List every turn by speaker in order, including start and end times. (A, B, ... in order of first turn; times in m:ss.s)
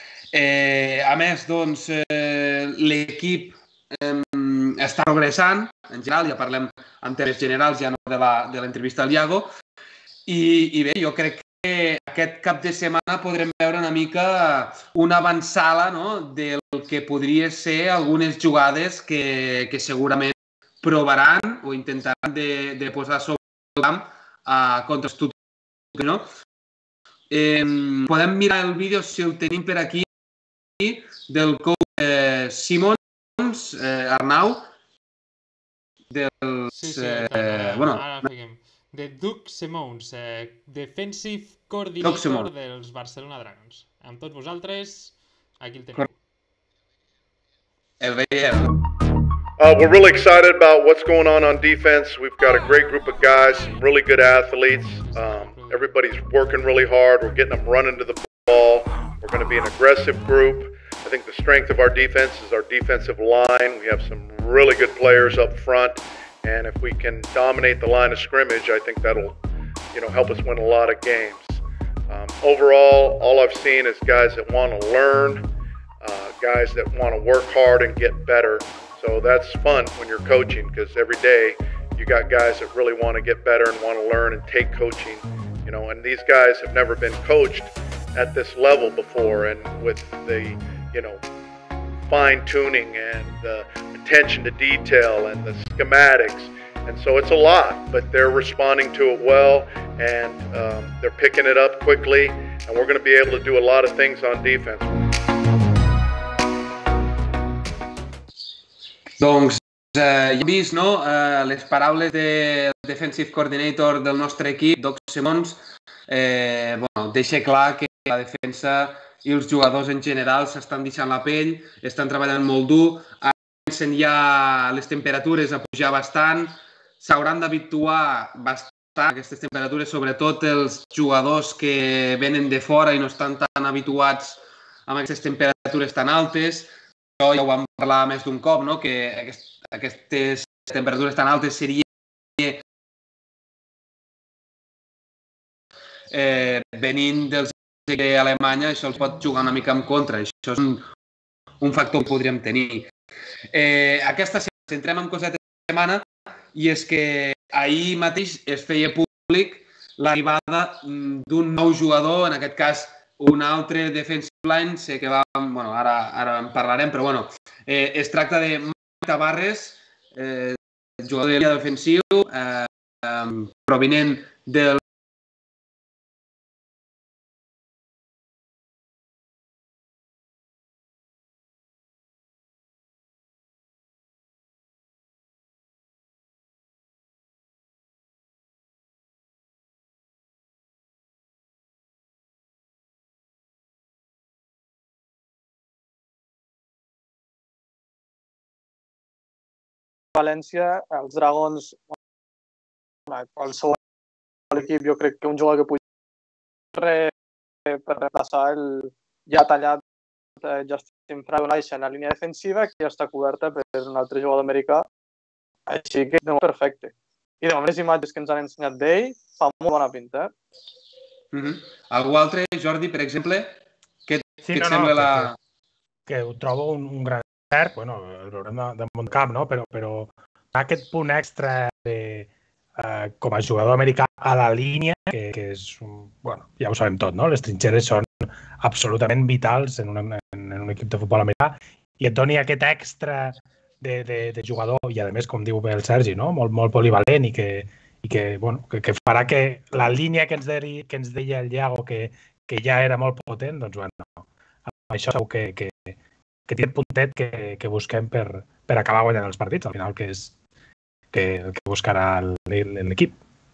0:00.3-0:09.5 A
0:10.3-0:25.3 A
0:25.9-0:26.3 A
0:27.3-0:30.1 A
0:30.8-0:34.7 A
0:36.1-0:38.3 A
0:36.7-0:46.1 B
0:42.0-0:42.5 A
0:48.0-0:48.8 A
0:49.6-1:09.4 C
0:54.8-0:55.9 B
1:09.9-1:15.5 C
1:16.0-1:31.2 C
1:32.1-1:45.0 C
1:49.2-2:21.9 A
2:22.4-2:22.6 A
2:26.1-2:30.8 A
2:31.6-2:32.9 A
2:33.5-2:54.8 A
3:20.2-3:21.8 D
3:23.1-3:23.8 D
3:24.5-3:25.8 D
3:26.8-3:27.1 D
3:27.7-3:29.8 D
3:30.4-3:34.9 D
3:35.7-3:40.3 D
3:41.3-3:45.4 A
3:44.5-3:45.3 E
3:46.1-4:20.3 E
4:21.1-4:23.2 E